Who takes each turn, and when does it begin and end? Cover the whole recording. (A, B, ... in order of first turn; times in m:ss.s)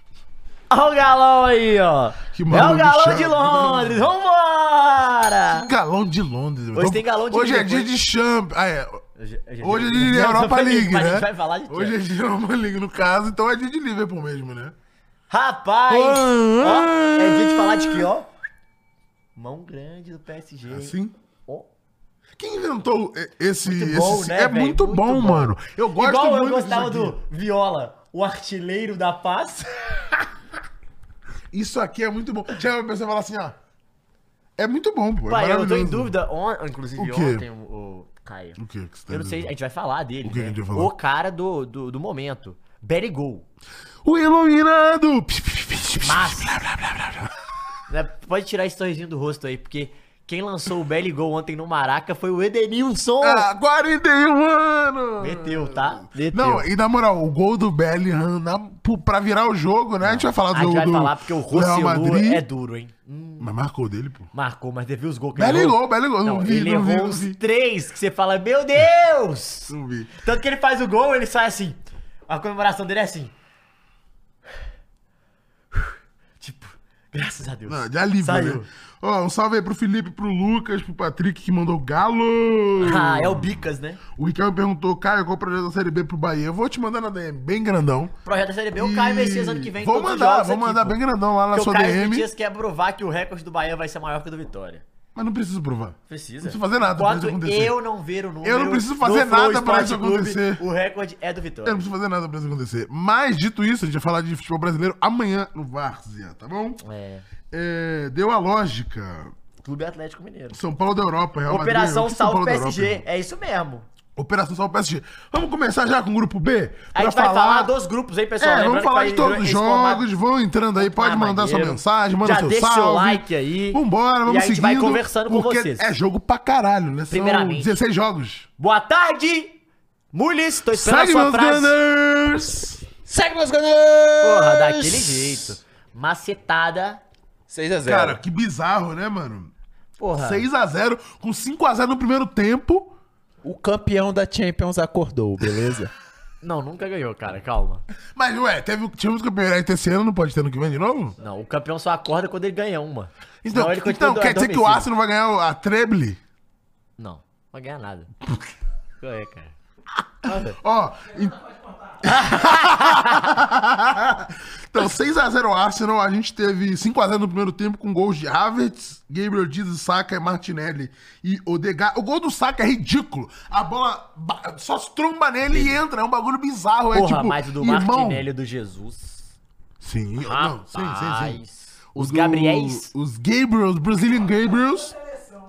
0:00.7-0:05.7 A
0:02.3-0:04.1 B
0:05.5-0:09.0 B
0:06.8-0:07.9 A
0:09.2-0:12.0 A
0:09.6-0:14.8 B
0:15.3-0:18.3 A
0:15.9-0:18.1 B
0:19.4-0:21.0 A
0:20.7-0:21.1 B
0:22.4-0:27.2 B
0:23.6-0:30.3 A
0:31.5-0:33.6 B
0:34.6-0:36.1 B
0:35.3-0:43.5 A
0:37.0-0:37.4 B
0:38.6-0:39.5 B
0:40.2-0:40.9 B
0:44.0-0:47.4 B
0:46.0-0:46.6 A
0:47.9-0:53.5 A
0:53.2-1:02.4 B
0:55.2-0:56.7 A
1:00.0-1:03.5 A
1:03.4-1:04.3 B
1:04.3-1:13.3 A
1:05.4-1:07.4 B
1:09.7-1:10.1 B
1:15.7-1:18.7 A
1:17.7-1:28.2 B
1:22.8-1:24.0 A
1:28.2-1:31.0 A
1:28.8-1:32.3 B
1:31.5-1:34.8 A
1:35.2-1:37.8 B
1:36.1-1:41.8 A
1:38.4-1:40.6 B
1:41.6-1:46.8 B
1:46.8-1:47.2 A
1:47.5-1:49.3 B
1:49.6-1:50.6 A
1:50.5-1:53.0 B
1:51.5-1:53.9 A
1:54.2-1:57.7 B
1:56.9-2:00.0 A
1:58.4-2:08.5 B
2:00.8-2:05.9 A
2:07.1-2:07.8 A
2:08.6-2:09.6 A
2:10.1-2:11.8 A
2:10.7-2:12.9 B
2:13.0-2:15.4 C
2:14.2-2:17.0 A
2:17.5-2:18.2 C
2:17.8-2:19.5 B
2:20.0-2:20.5 A
2:20.2-2:22.9 B
2:23.4-2:25.9 C
2:26.4-2:27.8 A
2:28.2-2:31.2 B
2:31.2-2:34.9 A
2:33.4-2:36.2 B
2:37.0-2:38.1 A
2:39.0-2:39.5 A
2:40.2-2:40.6 A
2:40.2-2:58.3 B
2:42.0-2:43.4 A
2:55.5-2:55.8 A
2:56.9-2:59.4 A
2:59.8-3:01.4 B
3:00.2-3:02.9 A
3:02.0-3:05.0 B